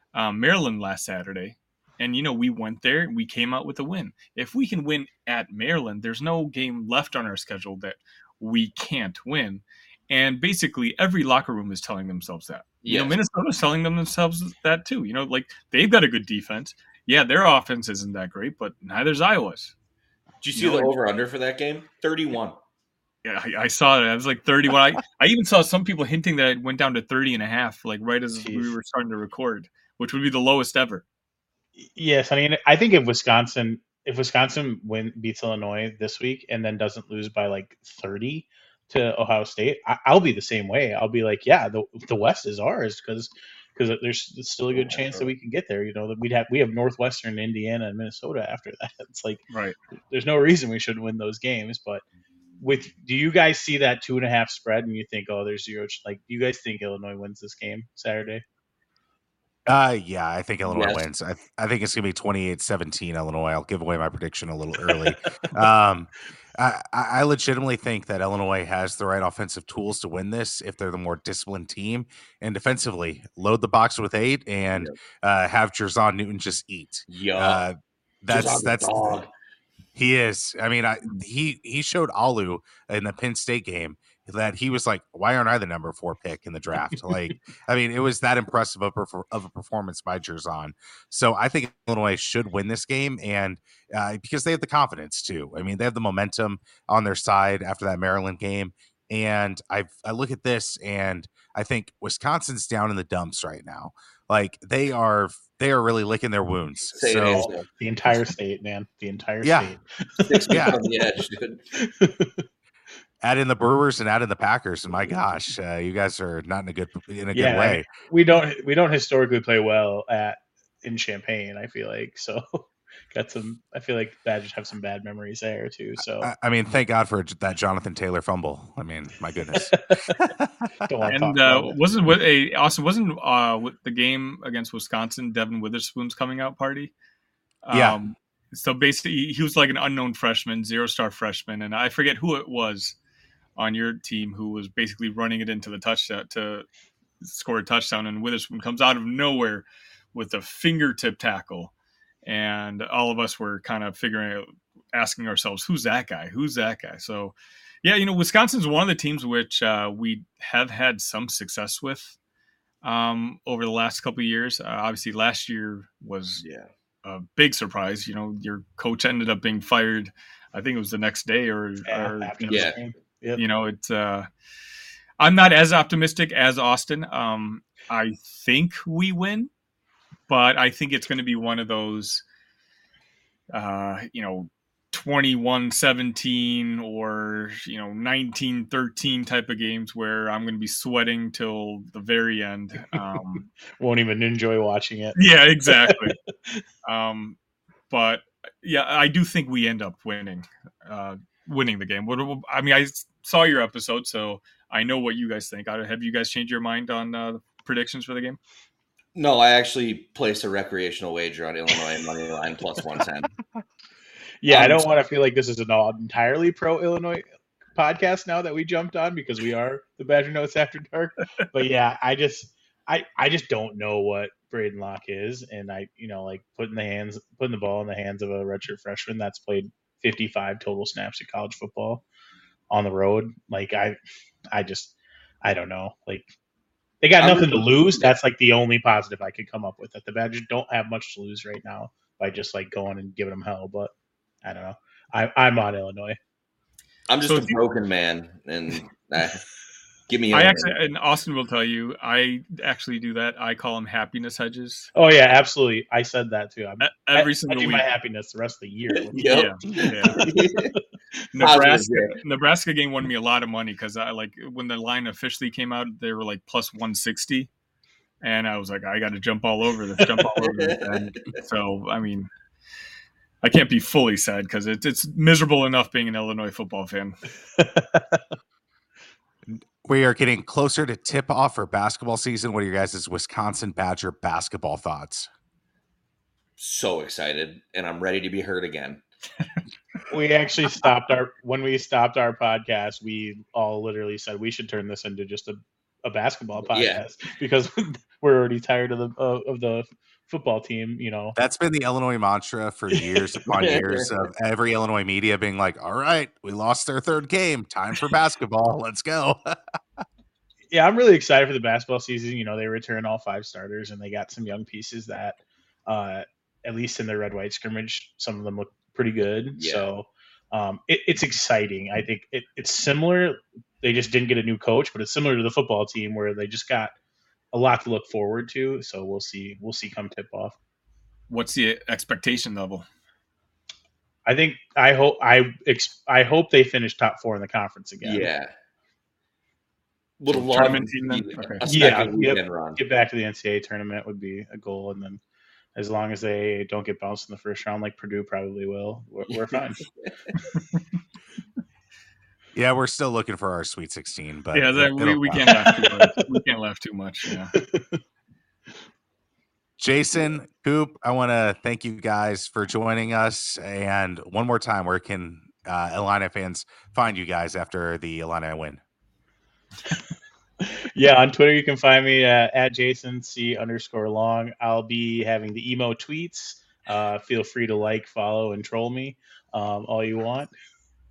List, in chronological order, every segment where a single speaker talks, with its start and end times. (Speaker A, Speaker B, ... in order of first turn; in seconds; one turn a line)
Speaker A: 0.1-19.7
Speaker B: 12.8-13.2
Speaker B: 20.4-22.6
Speaker A: 20.5-20.9
Speaker A: 23.2-31.0
Speaker C: 28.4-28.7
Speaker C: 31.8-49.4
Speaker A: 49.5-49.8
Speaker C: 50.1-52.0
Speaker C: 52.6-58.4
Speaker D: 59.7-79.3
Speaker B: 60.7-61.0
Speaker B: 77.1-77.6
Speaker B: 78.3-79.3
Speaker D: 79.9-107.5
Speaker B: 106.9-107.7
Speaker C: 107.3-110.7
Speaker D: 109.4-109.7
Speaker B: 110.2-111.7
Speaker D: 110.5-110.8
Speaker C: 111.8-112.4
Speaker D: 113.2-117.9
Speaker C: 117.3-126.3
Speaker D: 126.2-130.5
Speaker C: 129.5-130.3
Speaker C: 130.8-131.8
Speaker A: 131.1-136.9
Speaker A: 137.6-143.0
Speaker D: 137.7-138.0
Speaker A: 143.6-146.7
Speaker A: 147.2-151.7
Speaker A: 152.2-162.2
Speaker A: 162.8-166.4
Speaker B: 166.4-166.7
Speaker A: 167.0-172.7
Speaker C: 171.9-173.4
Speaker B: 172.5-172.8
Speaker A: 173.3-174.3
Speaker A: 175.2-179.5
Speaker A: 180.3-182.2
Speaker A: 183.5-193.5
Speaker C: 193.8-195.2
Speaker A: 195.2-196.2
Speaker C: 195.7-196.6
Speaker A: 196.8-197.4
Speaker A: 197.9-208.4
Speaker B: 209.1-213.3
Speaker C: 214.4-217.2
Speaker B: 214.5-214.9
Speaker C: 217.8-232.0
Speaker C: 232.7-234.0
Speaker C: 234.5-236.3
Speaker C: 237.0-243.9
Speaker B: 237.2-238.1
Speaker C: 244.4-246.2
Speaker B: 247.1-249.4
Speaker A: 247.2-247.6
Speaker B: 250.1-250.8
Speaker A: 250.3-254.9
Speaker C: 254.9-260.8
Speaker A: 256.8-257.9
Speaker B: 259.0-260.7
Speaker A: 259.3-260.3
Speaker A: 261.3-267.5
Speaker B: 261.4-262.2
Speaker A: 268.2-272.3
Speaker B: 270.4-270.9
Speaker A: 273.4-277.2
Speaker C: 277.6-278.2
Speaker D: 279.4-285.3
Speaker B: 286.6-289.0
Speaker C: 290.1-301.4
Speaker B: 296.6-297.0
Speaker D: 301.4-309.6
Speaker C: 302.9-303.2
Speaker B: 303.5-304.1
Speaker C: 310.7-326.9
Speaker B: 319.6-319.9
Speaker C: 327.5-330.6
Speaker A: 331.3-332.9
Speaker C: 334.2-338.3
Speaker B: 338.0-338.5
Speaker B: 340.2-342.8
Speaker A: 340.3-341.6
Speaker C: 341.6-345.2
Speaker C: 345.8-349.8
Speaker B: 349.3-350.1
Speaker A: 350.5-350.8
Speaker D: 352.5-355.8
Speaker A: 354.5-357.5
Speaker C: 357.5-358.0
Speaker D: 359.8-368.8
Speaker C: 370.9-380.5